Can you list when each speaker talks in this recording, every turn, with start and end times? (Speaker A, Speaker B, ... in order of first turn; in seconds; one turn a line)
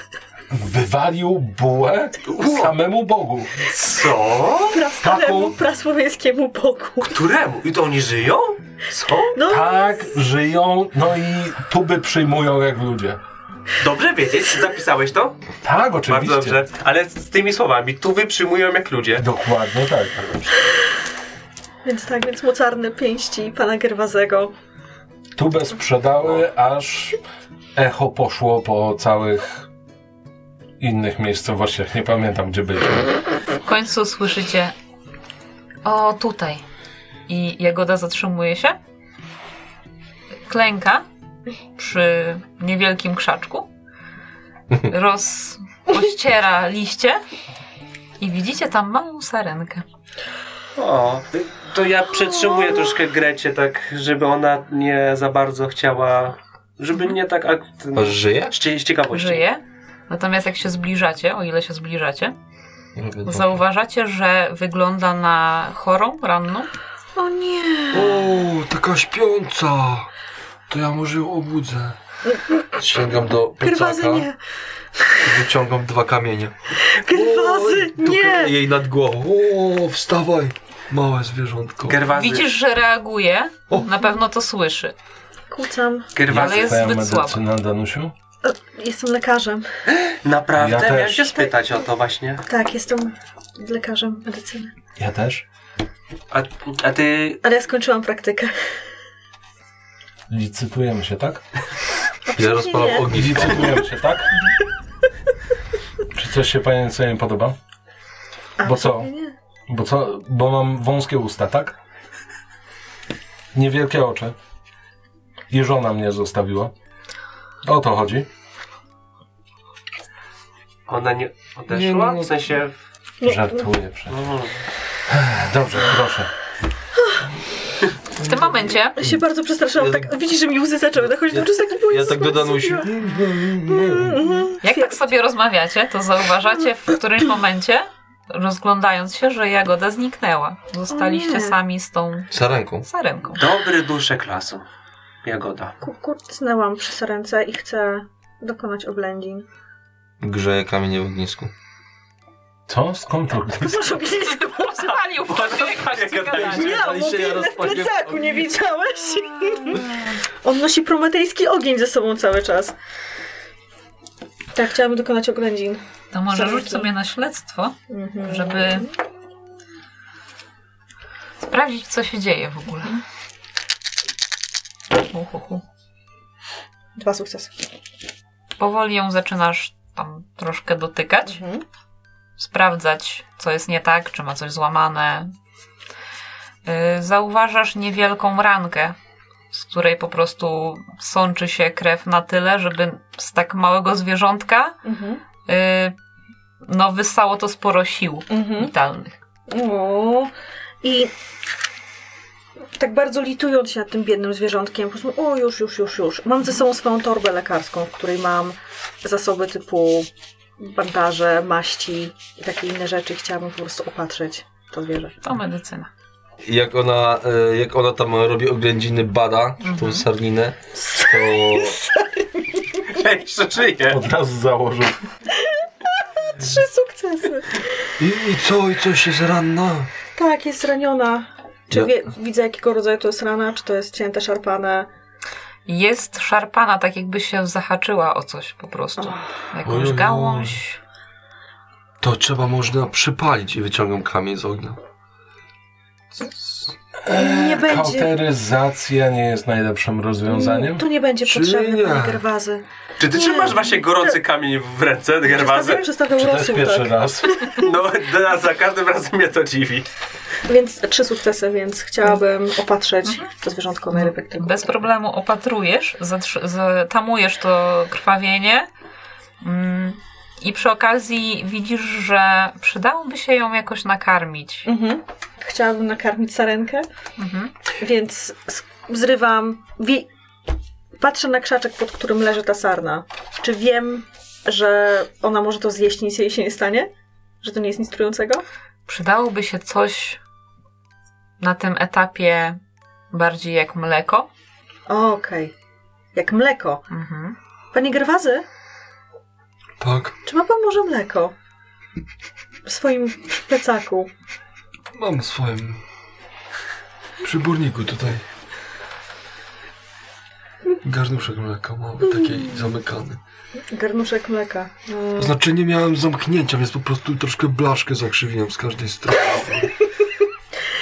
Speaker A: 0.5-3.6
Speaker B: 2.4-2.7
Speaker B: 3.7-4.8
Speaker C: 4.7-7.1
Speaker A: 5.0-5.5
Speaker B: 7.1-9.4
Speaker C: 9.3-10.0
Speaker A: 9.4-13.2
Speaker B: 13.8-15.4
Speaker A: 15.6-16.6
Speaker B: 16.1-19.2
Speaker A: 19.2-20.2
Speaker B: 20.2-20.5
Speaker C: 21.9-24.5
Speaker A: 25.4-27.2
Speaker A: 27.8-29.6
Speaker A: 30.8-33.1
Speaker D: 33.6-34.7
Speaker D: 35.8-36.6
Speaker D: 37.3-38.8
Speaker D: 40.5-41.0
Speaker D: 41.8-43.7
Speaker D: 44.9-47.2
Speaker D: 48.2-49.9
Speaker B: 50.8-59.4
Speaker E: 57.9-58.5
Speaker D: 59.1-62.4
Speaker E: 63.0-63.5
Speaker D: 63.2-66.7
Speaker C: 67.2-68.3
Speaker F: 67.9-70.1
Speaker F: 70.7-72.0
Speaker F: 72.8-74.2
Speaker E: 73.2-73.5
Speaker C: 73.6-74.4
Speaker C: 75.0-75.2
Speaker F: 75.2-76.5
Speaker C: 76.9-78.6
Speaker F: 77.1-82.0
Speaker B: 81.9-82.5
Speaker D: 82.1-84.9
Speaker C: 85.5-86.1
Speaker B: 86.1-86.8
Speaker A: 86.3-88.1
Speaker D: 86.3-87.4
Speaker C: 88.4-89.7
Speaker B: 90.0-92.4
Speaker A: 90.6-91.3
Speaker C: 92.5-94.7
Speaker A: 95.0-95.4
Speaker B: 96.3-97.4
Speaker C: 97.4-98.5
Speaker A: 100.3-101.4
Speaker C: 102.3-103.8
Speaker E: 102.4-103.7
Speaker A: 103.1-104.3
Speaker A: 106.1-107.6
Speaker C: 108.6-109.3
Speaker A: 108.6-109.1
Speaker A: 109.7-111.8
Speaker A: 113.5-114.3
Speaker A: 115.5-116.7
Speaker A: 117.6-118.3
Speaker B: 120.9-122.7
Speaker F: 121.7-122.3
Speaker C: 123.2-123.7
Speaker A: 123.2-124.2
Speaker B: 124.1-124.6
Speaker A: 125.1-126.3
Speaker D: 128.2-129.0
Speaker C: 129.0-132.9
Speaker E: 129.8-130.1
Speaker E: 131.2-132.9
Speaker F: 132.8-134.4
Speaker C: 133.7-135.1
Speaker D: 134.6-142.3
Speaker C: 140.9-141.6
Speaker E: 142.3-142.8
Speaker D: 142.8-143.5
Speaker B: 143.4-144.6
Speaker B: 145.2-145.7
Speaker C: 145.8-149.4
Speaker E: 150.2-151.5
Speaker A: 152.7-154.0
Speaker C: 153.6-155.0
Speaker D: 154.3-156.8
Speaker B: 155.1-156.9
Speaker C: 156.4-162.7
Speaker E: 156.7-158.4
Speaker C: 164.5-166.9
Speaker D: 166.1-168.9
Speaker C: 167.9-168.9
Speaker D: 171.4-173.0
Speaker D: 175.0-175.6
Speaker C: 176.9-177.6
Speaker D: 178.6-181.4
Speaker C: 181.3-181.6
Speaker D: 182.4-185.3
Speaker D: 186.6-188.9
Speaker D: 189.5-194.8
Speaker C: 194.8-195.2
Speaker D: 195.5-195.9
Speaker D: 196.6-199.2
Speaker C: 198.3-198.7
Speaker C: 199.5-200.3
Speaker C: 200.8-201.1
Speaker C: 202.8-210.1
Speaker C: 210.6-215.2
Speaker D: 215.2-215.9
Speaker E: 216.4-221.8
Speaker D: 219.6-220.1
Speaker C: 220.8-221.8
Speaker B: 222.9-224.0
Speaker A: 223.9-225.0
Speaker C: 225.4-227.7
Speaker F: 228.0-229.9
Speaker C: 230.1-234.9
Speaker D: 235.7-240.8
Speaker C: 239.0-239.2
Speaker F: 239.6-240.6
Speaker F: 242.0-244.8
Speaker F: 246.2-246.7
Speaker A: 247.1-250.9
Speaker C: 247.1-248.1
Speaker C: 250.2-254.2
Speaker F: 251.2-252.2
Speaker B: 253.0-255.9
Speaker C: 255.2-257.7
Speaker A: 256.1-257.4
Speaker B: 257.6-259.9
Speaker C: 260.5-264.6
Speaker D: 263.9-268.7
Speaker D: 269.4-274.7
Speaker C: 274.6-276.9
Speaker D: 277.2-277.5
Speaker C: 277.8-280.1
Speaker C: 281.0-286.9
Speaker C: 287.4-288.4
Speaker D: 288.9-290.2
Speaker D: 291.4-292.6
Speaker D: 293.1-294.3
Speaker C: 294.9-295.5
Speaker C: 296.1-296.8
Speaker D: 296.9-297.4
Speaker C: 297.7-298.4
Speaker F: 299.8-300.2
Speaker C: 300.2-301.3
Speaker C: 302.6-304.1
Speaker F: 304.9-305.8
Speaker F: 307.2-308.2
Speaker F: 310.8-313.2
Speaker C: 313.7-315.4
Speaker F: 315.2-319.7